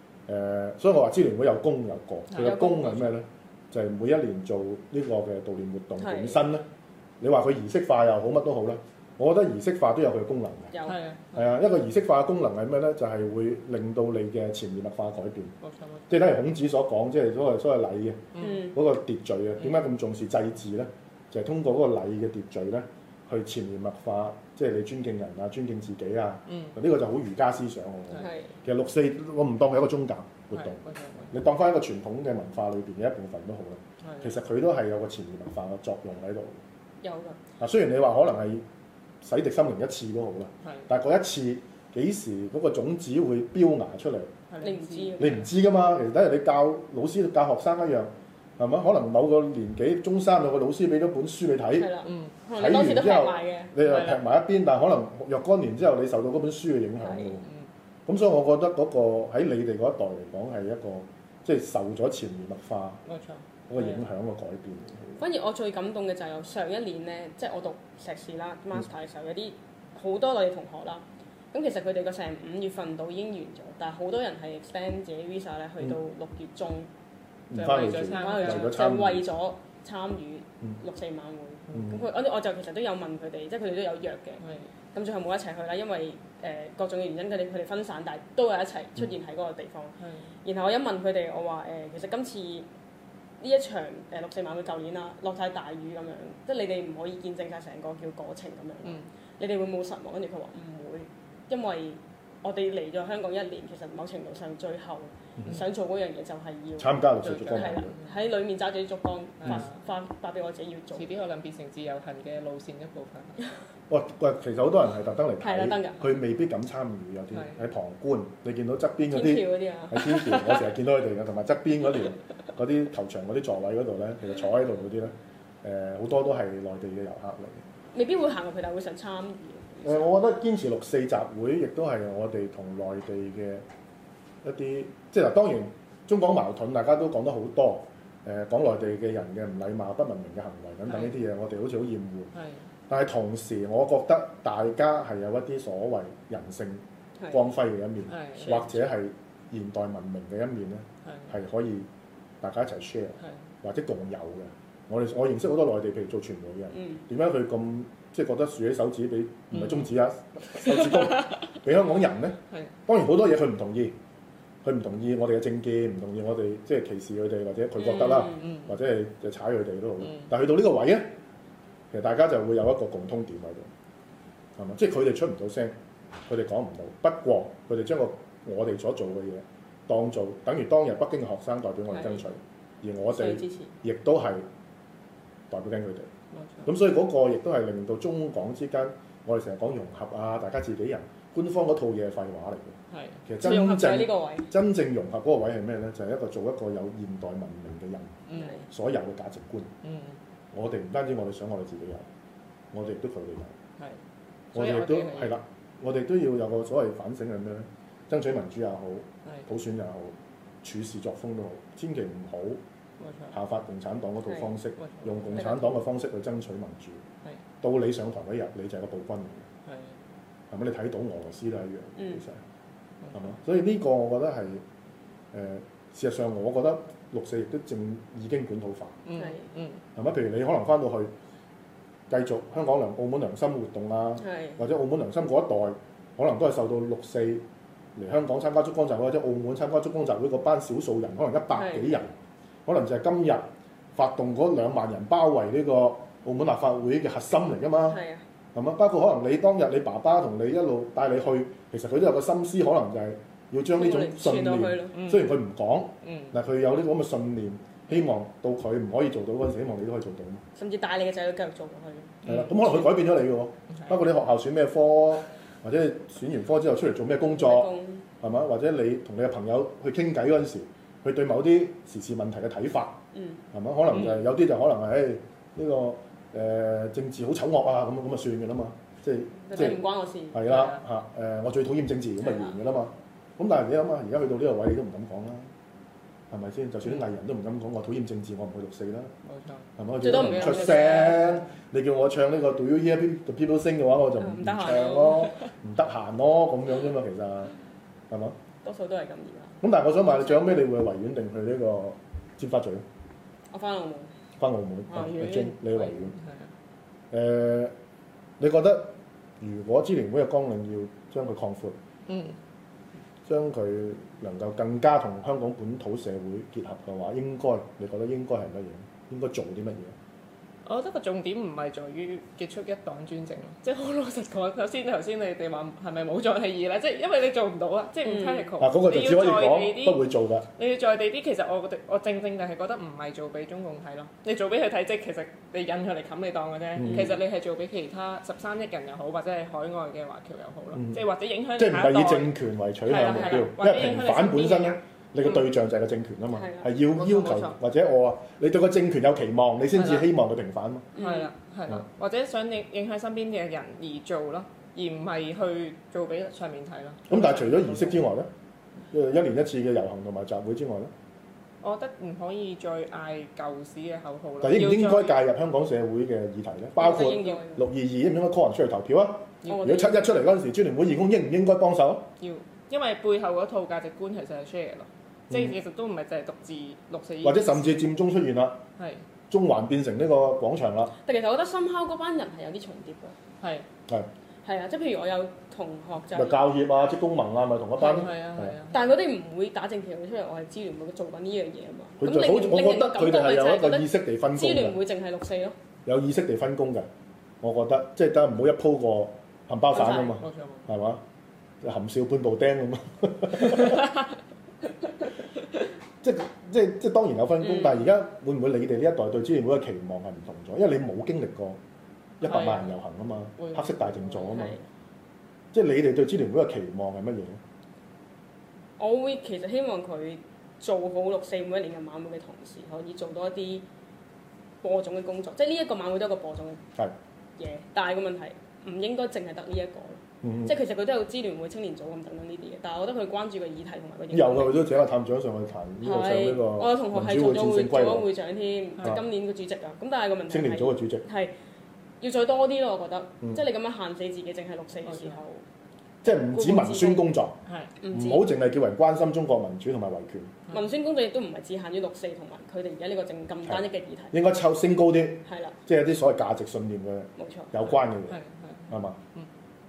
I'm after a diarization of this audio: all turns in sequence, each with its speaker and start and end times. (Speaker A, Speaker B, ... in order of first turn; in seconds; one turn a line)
Speaker A: 0.3-6.7
Speaker B: 2.3-2.6
Speaker C: 2.4-3.1
Speaker C: 6.0-6.5
Speaker A: 7.2-10.7
Speaker C: 10.7-11.0
Speaker B: 10.8-11.5
Speaker A: 11.3-15.5
Speaker B: 15.6-16.1
Speaker A: 16.1-30.8
Speaker B: 18.3-18.7
Speaker C: 18.4-18.7
Speaker B: 26.5-26.7
Speaker C: 28.2-28.5
Speaker B: 30.5-31.3
Speaker A: 31.3-36.6
Speaker B: 34.0-34.4
Speaker C: 37.0-37.4
Speaker A: 37.6-38.6
Speaker A: 39.2-44.3
Speaker B: 44.5-45.4
Speaker C: 44.6-45.4
Speaker A: 45.2-51.9
Speaker C: 51.8-53.7
Speaker B: 52.0-52.3
Speaker A: 52.5-57.5
Speaker B: 53.8-54.2
Speaker C: 57.0-57.4
Speaker A: 58.1-63.0
Speaker B: 63.0-63.8
Speaker A: 63.7-65.2
Speaker C: 65.2-76.9
Speaker A: 77.5-79.2
Speaker B: 77.5-78.8
Speaker C: 77.6-84.4
Speaker A: 81.7-82.0
Speaker B: 84.4-84.7
Speaker C: 84.9-92.7
Speaker B: 90.0-90.3
Speaker C: 93.4-111.2
Speaker A: 106.8-107.9
Speaker B: 107.2-108.1
Speaker B: 109.4-109.8
Speaker B: 110.9-113.4
Speaker A: 113.9-127.6
Speaker C: 115.4-116.0
Speaker B: 117.3-117.6
Speaker C: 119.1-120.1
Speaker C: 127.9-130.1
Speaker A: 129.8-133.6
Speaker A: 134.4-142.3
Speaker B: 140.9-141.2
Speaker B: 142.3-142.6
Speaker A: 142.9-151.9
Speaker C: 147.2-147.5
Speaker B: 148.1-148.8
Speaker B: 151.0-151.3
Speaker A: 152.4-163.9
Speaker C: 156.7-157.0
Speaker B: 159.5-159.9
Speaker B: 160.6-161.4
Speaker A: 164.6-171.1
Speaker B: 167.8-168.7
Speaker B: 170.0-170.3
Speaker A: 171.9-173.7
Speaker A: 174.6-175.7
Speaker A: 176.3-184.4
Speaker C: 183.1-183.7
Speaker A: 185.5-186.1
Speaker B: 186.3-186.7
Speaker A: 186.6-192.8
Speaker B: 192.9-193.2
Speaker A: 193.3-199.7
Speaker C: 193.4-194.5
Speaker B: 198.3-198.7
Speaker C: 198.3-198.6
Speaker B: 199.8-200.2
Speaker A: 200.5-202.1
Speaker A: 202.7-203.5
Speaker B: 204.5-205.4
Speaker A: 204.5-212.6
Speaker B: 213.0-213.3
Speaker A: 213.3-217.0
Speaker C: 214.2-214.5
Speaker B: 214.8-215.7
Speaker A: 217.6-219.5
Speaker B: 219.7-219.9
Speaker A: 220.5-222.4
Speaker B: 223.0-223.3
Speaker A: 223.1-224.6
Speaker A: 225.3-229.0
Speaker B: 229.0-229.8
Speaker C: 229.1-229.4
Speaker A: 229.9-231.1
Speaker A: 232.1-237.4
Speaker C: 234.2-234.6
Speaker A: 237.9-242.1
Speaker C: 241.5-242.0
Speaker A: 242.7-248.0
Speaker C: 247.9-248.2
Speaker A: 248.5-260.4
Speaker C: 253.7-255.0
Speaker B: 254.9-255.3
Speaker B: 256.0-256.3
Speaker C: 260.5-262.2
Speaker B: 262.2-262.8
Speaker A: 262.2-267.7
Speaker C: 267.2-268.1
Speaker A: 268.2-273.0
Speaker C: 273.1-273.4
Speaker A: 273.5-285.5
Speaker C: 279.5-280.4
Speaker B: 280.4-280.8
Speaker C: 282.2-282.5
Speaker A: 286.3-289.1
Speaker B: 289.2-291.3
Speaker A: 289.8-297.5
Speaker C: 290.0-291.2
Speaker C: 294.2-295.4
Speaker A: 298.1-298.4
Speaker C: 298.6-300.5
Speaker A: 299.6-302.8
Speaker C: 303.5-304.1
Speaker A: 304.4-306.1
Speaker C: 304.9-305.5
Speaker B: 305.1-306.5
Speaker A: 307.1-307.7
Speaker A: 308.4-311.8
Speaker B: 312.1-312.4
Speaker A: 313.2-319.9
Speaker B: 320.6-330.0
Speaker C: 328.0-328.5
Speaker A: 328.6-330.5
Speaker B: 330.5-342.3
Speaker A: 336.8-337.1
Speaker A: 340.7-341.0
Speaker A: 341.6-350.9
Speaker B: 342.9-345.5
Speaker C: 343.1-343.4
Speaker C: 346.3-346.7
Speaker B: 346.9-347.6
Speaker B: 349.7-350.1
Speaker C: 350.9-351.3
Speaker B: 350.9-358.1
Speaker A: 357.1-358.3
Speaker A: 358.9-360.9
Speaker B: 361.6-365.2
Speaker A: 364.4-372.1
Speaker C: 366.8-367.6
Speaker B: 366.8-367.4
Speaker B: 369.4-369.7
Speaker C: 369.5-370.1
Speaker B: 372.2-377.7
Speaker A: 377.2-378.6
Speaker B: 378.8-379.0
Speaker A: 379.3-380.9
Speaker C: 381.0-383.1
Speaker B: 383.4-383.7
Speaker C: 384.4-386.4
Speaker A: 386.1-388.6
Speaker B: 387.8-388.8
Speaker C: 388.7-395.5
Speaker A: 392.0-394.8
Speaker A: 395.9-396.9
Speaker A: 397.4-401.0
Speaker C: 399.7-400.2
Speaker B: 400.1-400.7
Speaker A: 401.6-404.0
Speaker A: 406.0-411.6
Speaker A: 412.2-414.6
Speaker B: 412.2-412.8
Speaker B: 413.4-414.5
Speaker C: 414.3-414.6
Speaker A: 415.5-417.4
Speaker C: 418.8-423.6
Speaker C: 424.6-426.6
Speaker C: 427.4-434.6
Speaker A: 430.2-430.5
Speaker A: 434.1-438.1
Speaker C: 435.8-441.3
Speaker A: 440.3-441.1
Speaker C: 442.0-445.4
Speaker B: 444.8-445.2
Speaker A: 446.0-447.4
Speaker C: 446.3-447.1
Speaker B: 447.4-447.7
Speaker C: 447.8-448.3
Speaker A: 447.9-450.4
Speaker C: 450.5-454.1
Speaker A: 453.4-458.2
Speaker C: 455.2-455.6
Speaker C: 457.2-457.5
Speaker B: 458.1-459.3
Speaker A: 458.7-459.0